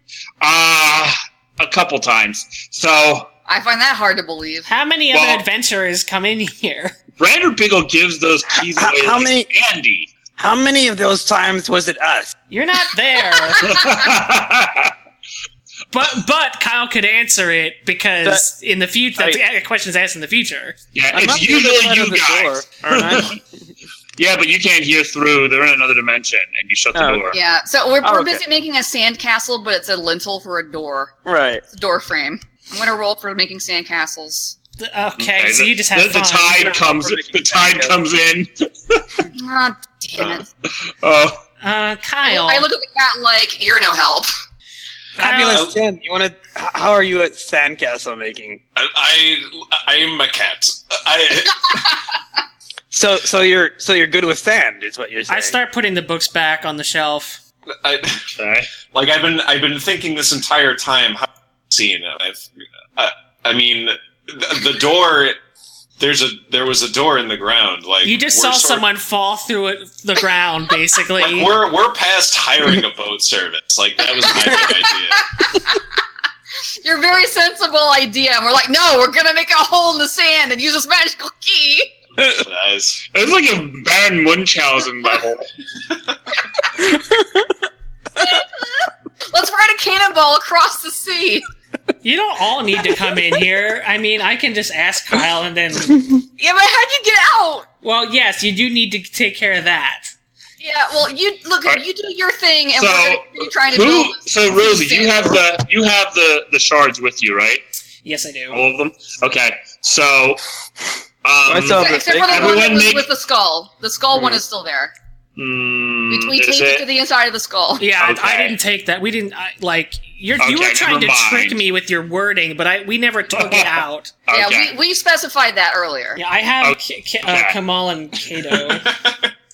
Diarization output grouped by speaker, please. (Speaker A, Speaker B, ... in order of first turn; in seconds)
Speaker A: 0.4-3.3, 5.1-5.4, 7.2-10.1, 13.6-14.9, 20.9-23.4, 24.2-27.4, 35.2-39.3, 40.9-41.4, 58.4-58.7, 83.1-85.4, 102.8-107.6, 108.5-110.4, 111.2-113.1, 115.3-116.8, 118.0-118.5, 120.4-121.6, 123.3-124.8, 126.6-127.6
Speaker B: 3.5-4.7, 27.3-31.1, 31.7-34.6, 39.3-40.5, 42.2-44.3, 75.5-75.8, 76.8-81.9, 88.2-91.4, 96.4-97.7, 100.6-105.4, 111.8-114.9, 116.1-117.8, 124.3-126.2
Speaker C: 4.7-7.0, 12.5-13.8, 15.9-20.8, 34.8-36.7, 41.6-42.7, 45.2-45.7, 55.3-57.4, 68.0-71.5, 92.0-96.1, 97.8-100.1, 108.0-108.6, 117.8-124.1, 126.2-128.9
Speaker D: 8.7-9.5, 10.4-12.3, 21.1-23.4, 26.9-27.3, 28.0-28.4, 31.2-31.6, 36.5-37.9, 45.2-48.6, 52.9-55.6, 111.5-112.6
Speaker E: 48.8-52.0, 57.8-58.3, 58.9-65.4, 66.0-68.8, 71.2-75.3, 82.2-83.0, 128.7-129.3